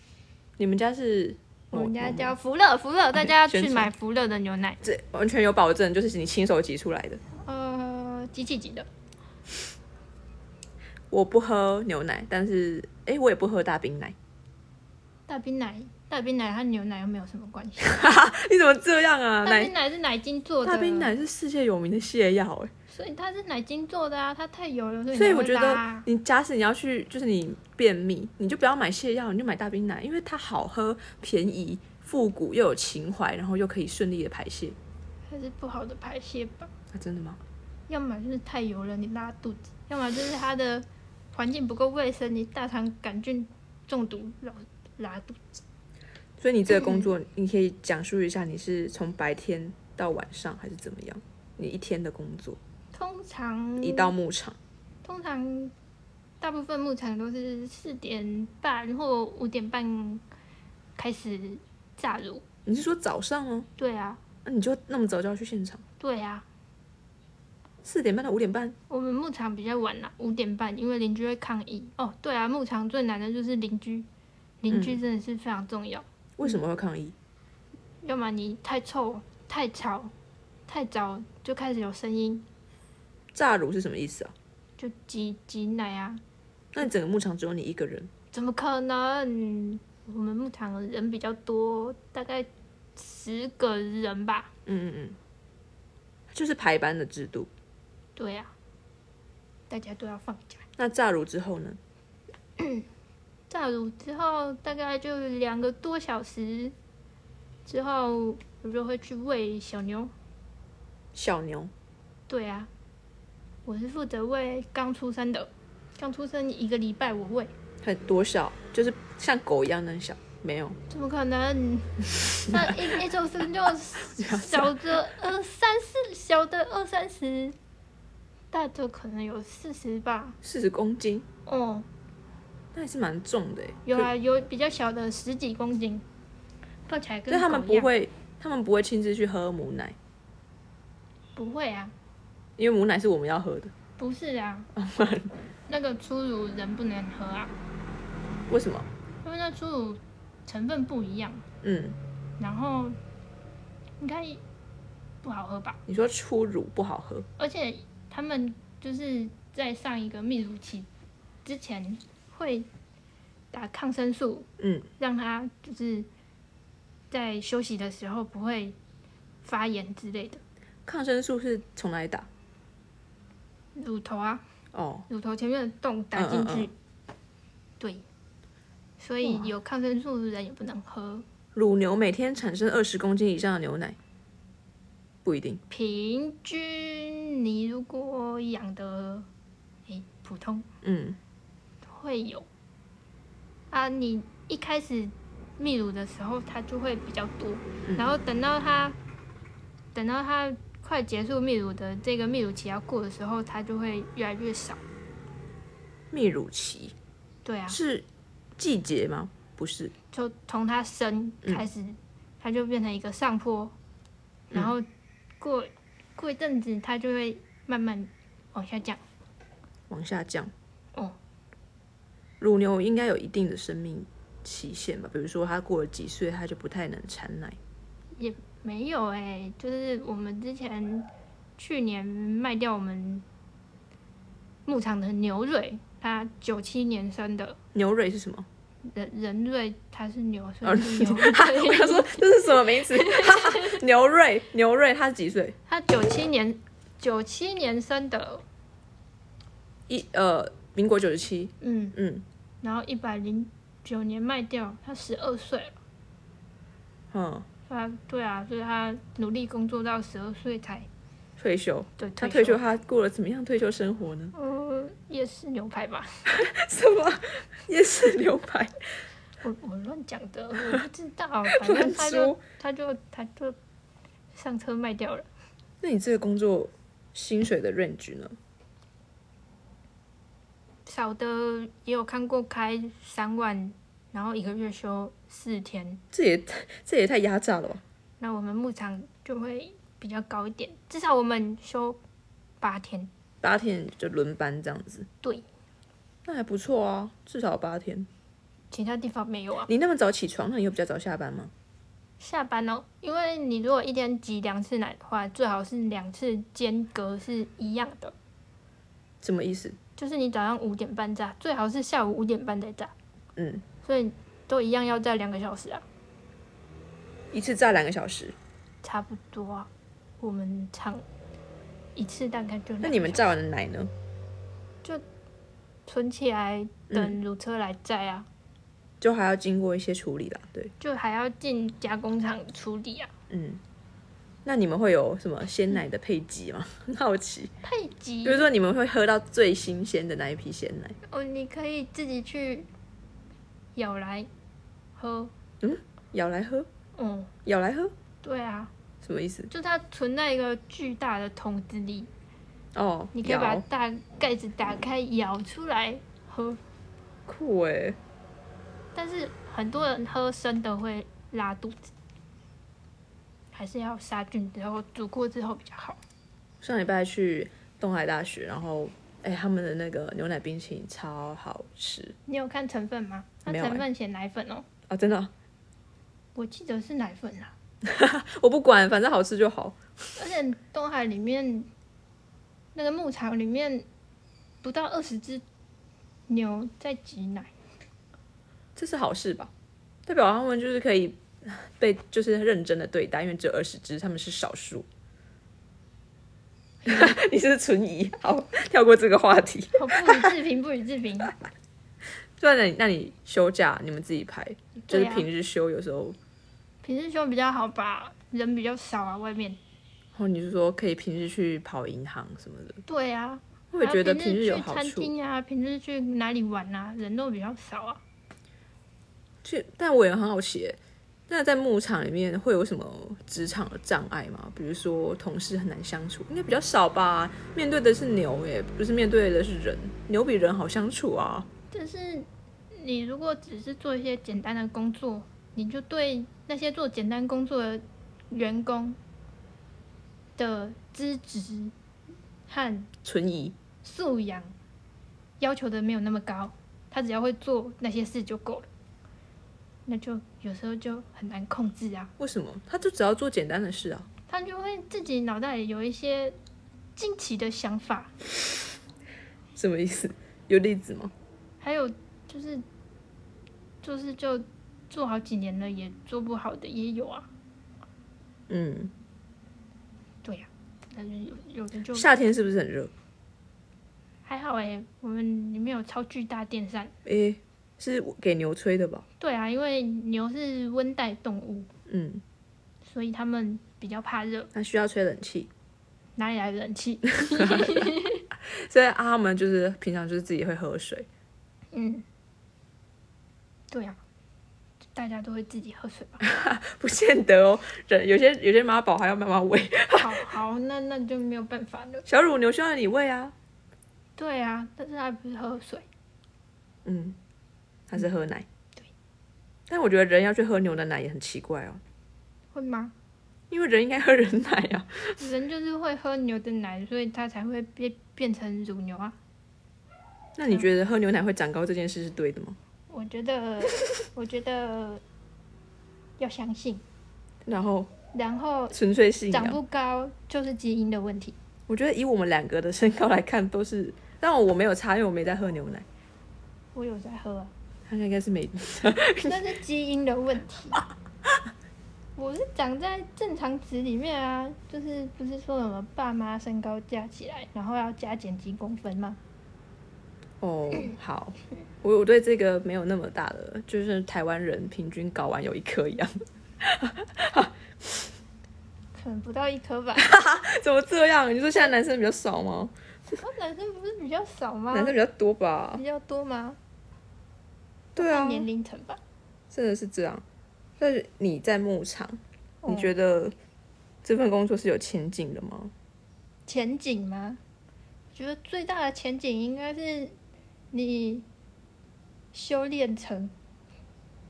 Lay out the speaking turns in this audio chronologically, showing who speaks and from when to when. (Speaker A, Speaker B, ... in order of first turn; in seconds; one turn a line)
Speaker A: 0.6-2.4
Speaker B: 1.7-4.8
Speaker A: 3.1-3.9
Speaker A: 4.8-7.2
Speaker B: 7.4-8.9
Speaker A: 11.1-14.2
Speaker B: 15.3-18.0
Speaker A: 17.8-19.7
Speaker B: 19.4-21.1
Speaker A: 20.6-22.7
Speaker B: 22.9-26.1
Speaker A: 25.1-34.8
Speaker B: 35.3-36.7
Speaker A: 36.9-37.4
Speaker B: 37.9-45.4
Speaker A: 46.4-52.6
Speaker B: 46.8-47.1
Speaker B: 52.9-54.1
Speaker A: 53.8-54.6
Speaker B: 55.0-55.7
Speaker B: 56.4-60.2
Speaker B: 61.0-62.4
Speaker A: 62.6-63.7
Speaker B: 63.8-64.2
Speaker A: 64.5-65.8
Speaker B: 66.0-66.5
Speaker A: 67.8-68.8
Speaker B: 68.9-74.1
Speaker B: 74.6-76.0
Speaker A: 74.7-75.0
Speaker A: 76.4-77.2
Speaker B: 78.0-80.1
Speaker B: 80.7-82.5
Speaker A: 83.3-84.3
Speaker B: 84.8-86.2
Speaker A: 86.7-88.1
Speaker B: 88.3-94.5
Speaker A: 94.7-95.2
Speaker A: 96.3-97.5
Speaker B: 98.2-98.5
Speaker B: 99.7-100.7
Speaker A: 100.8-101.8
Speaker B: 102.6-102.8
Speaker B: 103.5-106.8
Speaker B: 107.7-110.1
Speaker A: 111.2-111.7
Speaker B: 112.3-112.7
Speaker B: 113.7-117.5
Speaker A: 117.8-120.8
Speaker B: 120.9-127.6
Speaker A: 124.1-124.8
Speaker B: 128.5-130.4
Speaker A: 130.4-131.3
Speaker B: 131.5-131.9
Speaker A: 132.7-134.1
Speaker B: 133.8-136.1
Speaker B: 136.9-137.9
Speaker A: 137.3-140.0
Speaker B: 141.4-141.9
Speaker A: 142.6-143.7
Speaker B: 144.0-144.7
Speaker A: 144.8-145.3
Speaker B: 145.7-147.5
Speaker A: 148.5-148.9
Speaker B: 149.2-151.4
Speaker A: 151.6-152.0
Speaker B: 152.4-153.0
Speaker B: 154.0-154.4
Speaker B: 155.2-155.8
Speaker A: 155.9-157.3
Speaker B: 157.4-160.9
Speaker B: 161.4-162.7
Speaker B: 163.5-164.5
Speaker A: 164.6-164.9
Speaker B: 165.0-166.1
Speaker B: 167.1-168.8
Speaker B: 169.4-170.4
Speaker A: 170.9-172.3
Speaker B: 173.8-174.4
Speaker A: 174.7-175.1
Speaker B: 175.1-176.7
Speaker A: 176.1-176.7
Speaker B: 177.8-178.1
Speaker B: 179.0-181.2
Speaker A: 179.2-179.5
Speaker A: 181.6-184.0
Speaker A: 185.2-185.6
Speaker B: 185.7-189.3
Speaker B: 189.9-190.7
Speaker A: 190.8-191.2
Speaker B: 191.8-192.5
Speaker B: 193.7-199.0
Speaker A: 197.8-198.1
Speaker B: 199.9-204.8
Speaker A: 206.1-206.9
Speaker B: 207.4-207.8
Speaker A: 207.7-208.1
Speaker A: 208.6-209.9
Speaker B: 210.1-213.8
Speaker B: 214.5-214.9
Speaker B: 215.4-219.0
Speaker A: 219.9-220.5
Speaker A: 222.4-227.6
Speaker B: 228.2-233.2
Speaker B: 234.7-237.6
Speaker A: 237.7-238.5
Speaker B: 238.9-243.8
Speaker A: 240.6-245.6
Speaker B: 245.7-248.4
Speaker A: 249.9-252.2
Speaker B: 251.6-252.0
Speaker B: 252.6-255.8
Speaker A: 257.1-257.5
Speaker B: 257.7-260.9
Speaker A: 261.4-264.3
Speaker B: 262.0-262.6
Speaker B: 264.3-266.2
Speaker A: 266.3-268.8
Speaker B: 269.4-273.6
Speaker A: 271.5-272.4
Speaker B: 274.3-275.3
Speaker A: 275.8-278.4
Speaker B: 280.9-286.0
Speaker A: 286.1-287.8
Speaker B: 288.2-292.0
Speaker B: 292.6-293.1
Speaker A: 293.4-295.1
Speaker A: 296.2-298.1
Speaker B: 298.7-299.7
Speaker A: 299.7-301.5
Speaker B: 302.2-308.1
Speaker A: 309.2-309.8
Speaker B: 310.0-312.9
Speaker A: 313.4-313.6
Speaker B: 313.8-315.9
Speaker A: 317.3-318.4
Speaker B: 318.8-321.1
Speaker B: 321.9-323.3
Speaker A: 322.8-323.9
Speaker B: 325.9-328.3
Speaker A: 326.9-327.2
Speaker A: 329.0-330.7
Speaker B: 330.8-333.1
Speaker A: 333.3-333.6
Speaker A: 334.4-337.5
Speaker B: 337.6-338.5
Speaker A: 338.2-341.0
Speaker B: 341.1-342.7
Speaker B: 343.8-344.3
Speaker B: 345.0-345.3
Speaker A: 345.6-346.7
Speaker B: 347.0-347.3
Speaker A: 347.4-347.9
Speaker B: 348.2-348.7
Speaker A: 349.0-349.5
Speaker B: 349.5-352.1
Speaker A: 352.8-353.6
Speaker B: 353.1-356.6
Speaker A: 357.3-358.0
Speaker B: 358.9-361.9
Speaker B: 363.5-366.0
Speaker A: 366.6-372.2
Speaker B: 372.3-374.7
Speaker A: 373.5-373.9
Speaker A: 374.9-375.3
Speaker B: 376.4-377.5
Speaker A: 377.8-379.8
Speaker B: 380.2-381.7
Speaker B: 382.8-383.9
Speaker B: 384.6-385.4
Speaker B: 386.3-387.5
Speaker A: 388.8-389.5
Speaker A: 390.1-394.9
Speaker B: 396.9-397.1
Speaker A: 396.9-400.3
Speaker B: 399.8-401.3
Speaker A: 402.4-406.2
Speaker B: 404.8-405.3
Speaker B: 406.8-409.6
Speaker A: 410.1-412.8
Speaker B: 412.9-418.0
Speaker A: 413.7-415.1
Speaker A: 419.4-420.8
Speaker A: 421.3-431.5
Speaker B: 431.7-439.0
Speaker B: 440.4-441.7
Speaker B: 442.5-442.9
Speaker A: 443.0-443.6
Speaker B: 443.8-444.6
Speaker B: 445.4-448.7
Speaker B: 449.9-452.1
Speaker A: 452.2-454.1
Speaker B: 454.3-456.4
Speaker B: 457.0-458.1
Speaker A: 459.6-461.1
Speaker B: 461.6-462.6
Speaker B: 463.8-467.3
Speaker A: 468.5-468.9
Speaker B: 470.2-472.1
Speaker A: 471.9-472.9
Speaker B: 474.3-476.9
Speaker A: 477.1-479.1
Speaker B: 479.2-481.7
Speaker A: 481.9-482.2
Speaker B: 482.9-484.5
Speaker A: 484.5-485.5
Speaker B: 486.2-488.2
Speaker A: 487.2-487.9
Speaker A: 488.5-491.1
Speaker B: 491.7-492.1
Speaker B: 493.7-494.0
Speaker B: 494.9-496.2
Speaker A: 496.2-500.4
Speaker B: 499.9-502.1
Speaker A: 502.1-503.3
Speaker B: 504.2-505.9
Speaker A: 506.9-507.2
Speaker A: 507.9-508.5
Speaker A: 509.7-511.8
Speaker B: 512.5-512.9
Speaker A: 513.5-515.2
Speaker B: 515.2-519.2
Speaker A: 520.4-522.6
Speaker B: 522.9-525.0
Speaker B: 526.2-526.8
Speaker A: 527.5-527.9
Speaker B: 528.1-528.8
Speaker A: 528.7-529.6
Speaker B: 529.3-531.4
Speaker A: 531.7-535.9
Speaker B: 536.8-537.5
Speaker A: 537.9-539.4
Speaker B: 539.3-540.8
Speaker B: 542.2-549.2
Speaker A: 550.4-557.5
Speaker B: 558.9-560.1
Speaker A: 560.0-562.7
Speaker B: 563.1-565.0
Speaker A: 564.7-565.8
Speaker B: 565.8-566.6
Speaker A: 568.0-568.5
Speaker B: 568.0-569.0
Speaker A: 569.5-570.2
Speaker A: 570.8-573.3
Speaker B: 572.6-572.9
Speaker A: 574.0-575.7
Speaker B: 576.5-577.4
Speaker B: 578.1-580.2
Speaker B: 580.7-581.3
Speaker B: 582.3-583.3